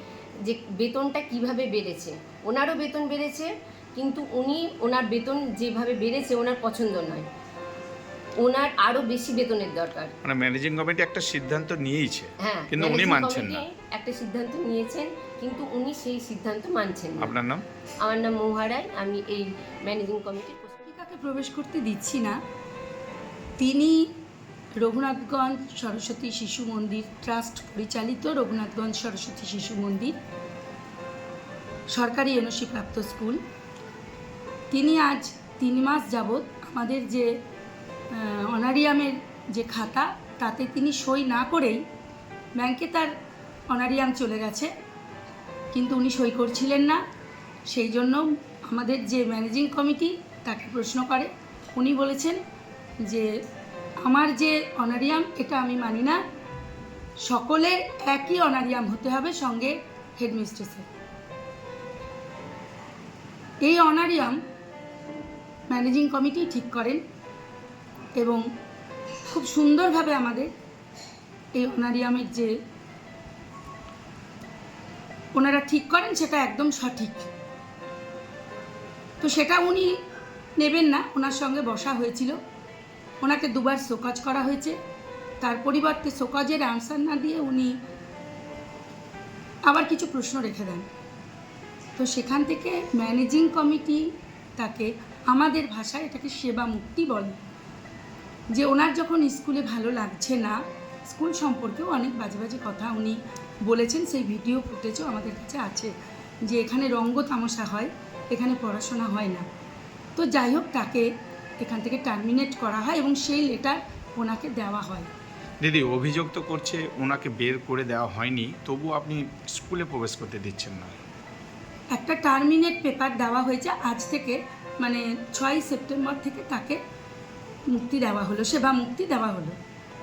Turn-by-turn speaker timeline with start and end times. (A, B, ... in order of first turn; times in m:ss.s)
0:00.4-0:07.2 A
0:08.4-0:10.1 A
0:10.2-0:13.6 B
0:12.4-0:17.4 A
0:17.2-0:17.6 B
0:18.0-0:20.8 A
0:20.9-0:22.4 C
0:23.6-0:24.0 C
0:24.8-0:30.1 C
0:31.9-0:33.4 C
0:34.7-0:37.3 C
0:38.1-0:41.8 C
0:42.6-0:43.1 C
0:43.7-0:44.7 C
0:45.7-0:47.0 C
0:47.7-0:52.4 C
0:54.0-0:56.2 C
0:57.3-1:00.9 C
1:03.6-1:04.4 C
1:05.7-1:07.0 C
1:08.2-1:08.4 C
1:09.3-1:10.5 C
1:11.6-1:12.5 C
1:15.4-1:17.3 C
1:19.2-1:19.9 C
1:20.6-1:22.3 C
1:23.2-1:24.8 C
1:25.4-1:27.7 C
1:29.7-1:30.9 C
1:32.0-1:34.0 C
1:34.6-1:37.4 C
1:38.5-1:45.9 C
1:46.5-1:49.4 C
1:50.2-1:51.1 C
1:51.6-1:55.1 C
1:55.6-2:00.9 B
2:01.9-2:06.8 C
2:07.7-2:09.6 C